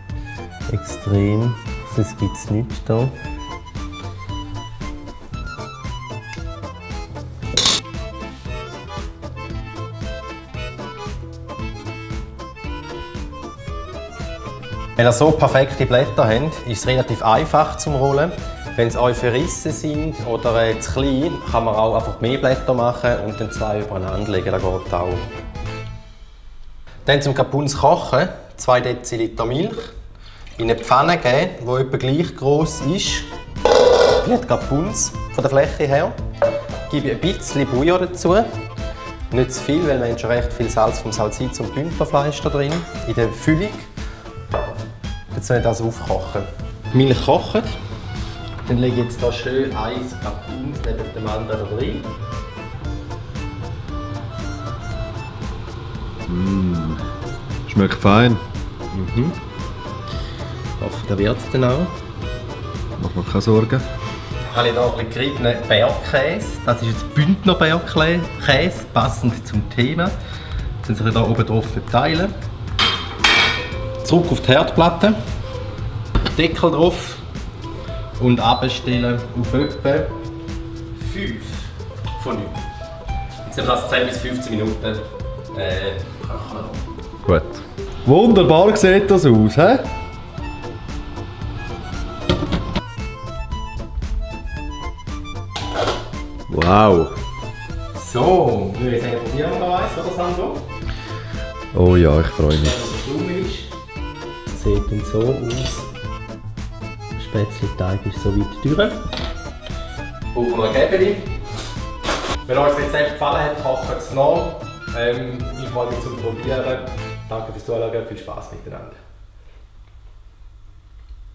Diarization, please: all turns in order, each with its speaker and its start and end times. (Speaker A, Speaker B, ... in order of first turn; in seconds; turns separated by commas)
Speaker A: 0.7-3.1, Speaker A: 15.0-25.2, Speaker A: 27.1-29.8, Speaker A: 30.6-33.3, Speaker A: 34.2-36.1, Speaker A: 36.9-38.5, Speaker A: 39.3-43.9, Speaker A: 45.3-47.8, Speaker A: 48.6-52.1, Speaker B: 56.3-57.0, Speaker B: 57.7-58.4, Speaker A: 59.0-59.3, Speaker A: 60.8-61.9, Speaker B: 63.0-63.9, Speaker A: 64.5-70.1, Speaker A: 70.8-72.3, Speaker A: 74.0-75.2, Speaker A: 76.3-77.2, Speaker A: 78.2-80.1, Speaker A: 81.0-82.6, Speaker A: 83.4-86.8, Speaker B: 87.2-89.8, Speaker B: 96.5-97.1, Speaker A: 97.9-100.6, Speaker B: 101.7-102.7, Speaker A: 102.5-103.7, Speaker A: 104.5-105.9, Speaker A: 107.2-109.0, Speaker A: 110.3-111.3, Speaker A: 112.4-119.0